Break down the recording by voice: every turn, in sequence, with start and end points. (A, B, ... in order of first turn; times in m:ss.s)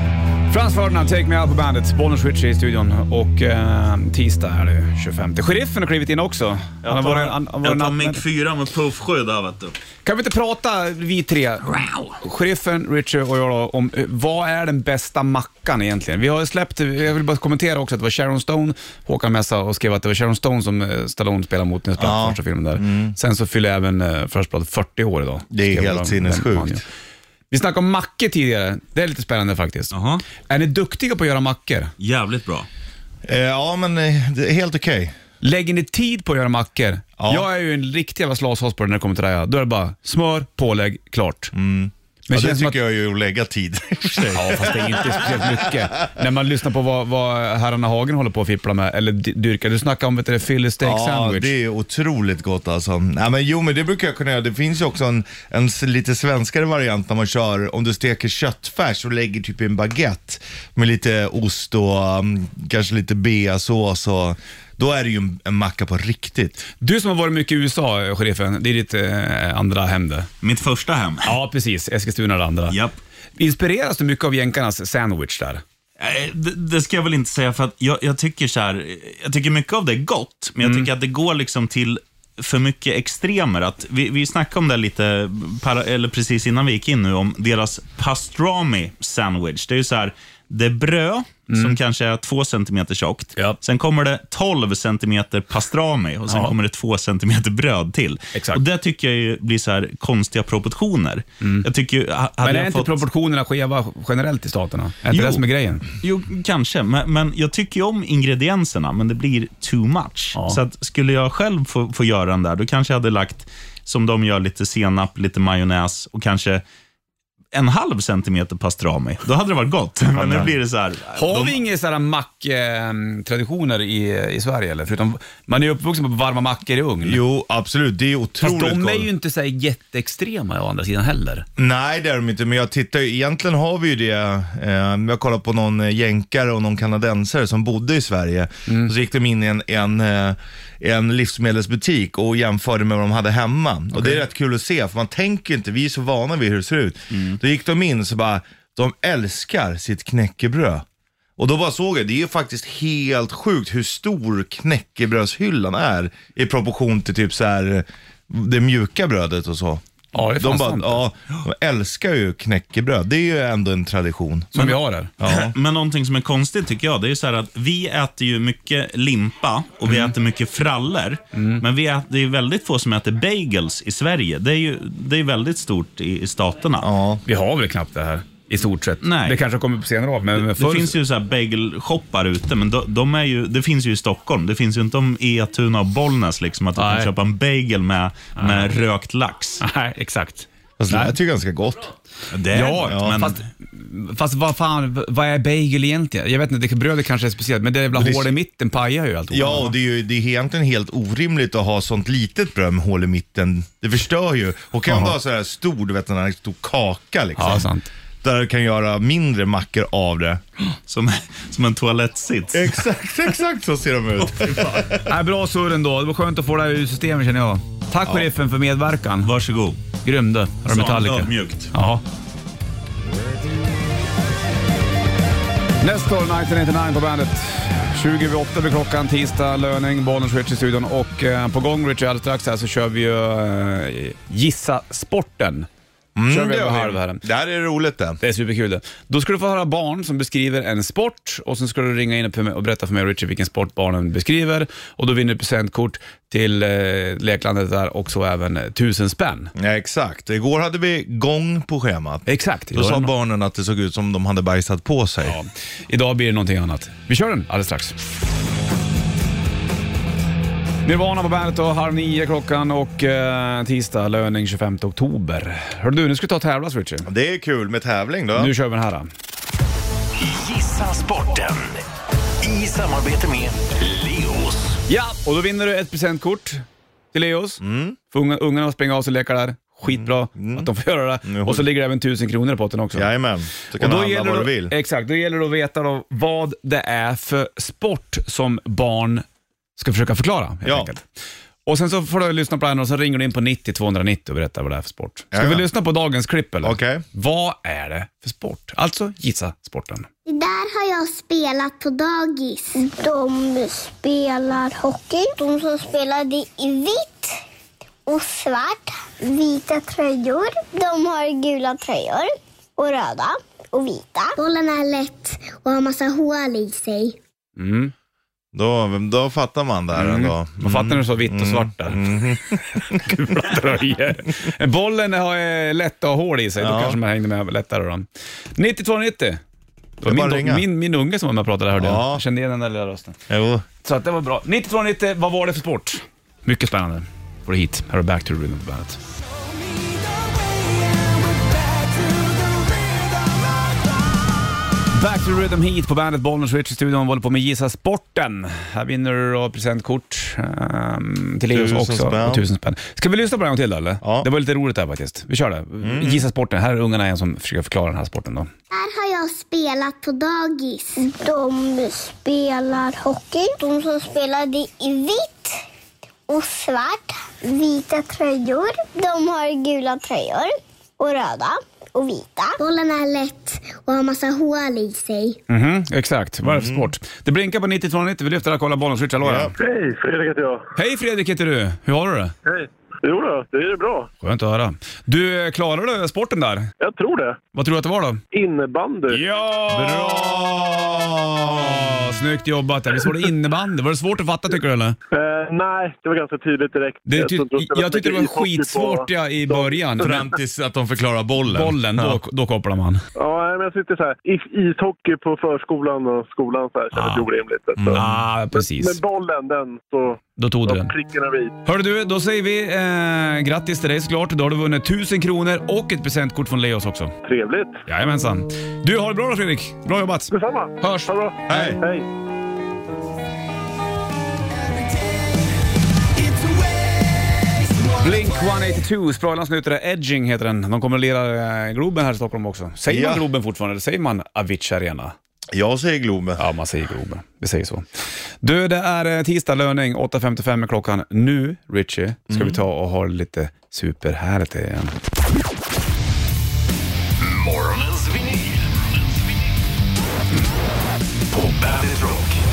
0:00.5-0:08.2 A
0:06.8-0:09.7 B
0:10.0-0:26.8 A
0:11.7-0:12.1 B
0:22.0-0:23.1 C
0:25.5-0:26.8 C
0:27.5-0:31.9 A
0:29.9-0:30.2 B
0:32.0-0:32.7 B
0:33.2-0:35.1 C
0:35.4-0:41.5 A
0:37.2-0:37.5 C
0:41.5-0:46.1 C
0:42.3-0:42.8 A
0:44.2-0:51.5 A
0:50.8-1:06.6 C
1:06.8-1:10.3 A
1:10.4-1:11.3 B
1:11.2-1:12.8 A
1:12.7-1:13.0 B
1:13.4-1:15.6 A
1:16.0-1:43.0 B
1:20.6-1:20.9 A
1:31.5-1:31.8 A
1:36.3-1:36.5 A
1:38.3-1:38.6 A
1:41.4-1:41.6 A
1:42.4-1:45.8 A
1:45.1-1:45.4 B
1:46.0-1:56.6 B
1:50.3-1:50.6 A
1:57.5-2:01.6 B
2:00.2-2:00.5 C
2:01.1-2:07.2 A
2:07.0-2:09.1 C
2:08.4-2:11.4 A
2:11.6-2:30.8 C
2:23.9-2:24.2 A
2:31.4-2:45.5 C
2:40.1-2:41.0 A
2:44.5-2:45.1 A
2:44.6-2:56.9 B
2:49.8-2:50.1 A
2:51.3-2:51.6 A
2:56.8-2:57.2 C
2:57.2-3:01.0 A
2:59.0-2:59.4 B
3:00.3-3:09.6 B
3:06.8-3:07.1 A
3:08.4-3:08.7 A
3:09.6-3:11.2 A
3:10.8-3:11.9 C
3:12.3-3:13.4 B
3:12.5-3:19.7 A
3:12.9-3:13.2 C
3:17.9-3:18.3 C
3:19.3-3:27.7 C
3:24.9-3:25.1 A
3:27.4-3:27.9 A
3:28.2-3:30.4 C
3:30.9-3:32.8 B
3:32.5-3:35.0 C
3:34.4-3:34.8 B
3:35.0-3:39.3 A
3:39.2-3:39.8 B
3:40.0-3:42.0 A
3:40.6-3:41.7 B
3:45.8-3:55.7 A
3:56.2-3:58.2 C
3:56.2-3:57.2 A
3:58.2-4:09.5 A
4:09.6-4:15.4 C
4:12.3-4:13.1 A
4:15.2-4:18.0 A
4:20.8-4:27.1 A
4:27.0-4:28.5 C
4:28.3-4:29.1 A
4:30.2-4:31.8 D
4:32.4-4:34.8 D
4:34.9-4:43.1 A
4:37.6-4:38.0 C
4:39.8-4:40.7 C
4:41.2-4:41.7 C
4:42.9-4:44.7 C
4:43.8-4:49.2 A
4:49.8-4:51.0 A
4:50.6-4:50.9 C
4:51.6-5:00.1 A
4:55.3-4:55.7 C
4:56.6-4:57.0 C
5:00.2-5:07.4 E
5:08.1-5:17.2 E
5:17.6-5:17.9 A
5:18.5-5:23.5 C
5:19.9-5:22.2 A
5:22.8-5:29.4 A
5:26.6-5:27.0 C
5:30.0-5:33.2 A
5:30.0-5:30.7 C
5:31.7-5:32.2 C
5:33.3-5:33.6 C
5:33.8-5:39.0 A
5:40.1-5:43.2 D
5:44.9-5:58.5 A
5:51.5-5:52.4 C
5:54.0-5:54.3 C
5:55.8-5:56.2 C
5:58.7-6:05.6 E
6:06.3-6:15.4 E
6:15.5-6:19.5 A
6:16.4-6:16.9 C
6:19.2-6:19.5 C
6:19.6-6:20.7 F
6:20.8-6:22.3 A
6:22.4-6:24.1 F
6:24.2-6:26.7 A
6:26.8-6:27.4 F
6:27.5-6:28.2 A
6:28.3-6:29.2 F
6:29.1-6:30.4 A
6:29.7-6:32.1 C
6:31.5-6:35.0 A
6:35.1-6:40.3 F
6:37.0-6:40.3 A
6:40.0-6:42.2 C
6:41.5-6:43.0 A
6:43.2-6:51.6 F
6:46.9-6:47.3 A
6:47.7-6:48.1 C
6:47.9-6:49.0 A
6:50.4-6:50.9 A
6:51.6-6:57.1 A
6:57.2-6:57.8 F
6:57.9-7:01.7 A
7:00.3-7:02.1 F
7:01.5-7:01.8 C
7:06.2-7:06.9 D
7:08.0-7:15.2 A
7:12.9-7:13.2 C
7:15.5-7:16.4 C
7:16.4-7:17.8 A
7:18.4-7:24.9 A
7:22.3-7:22.6 C
7:27.2-7:29.1 D
7:31.3-7:32.4 D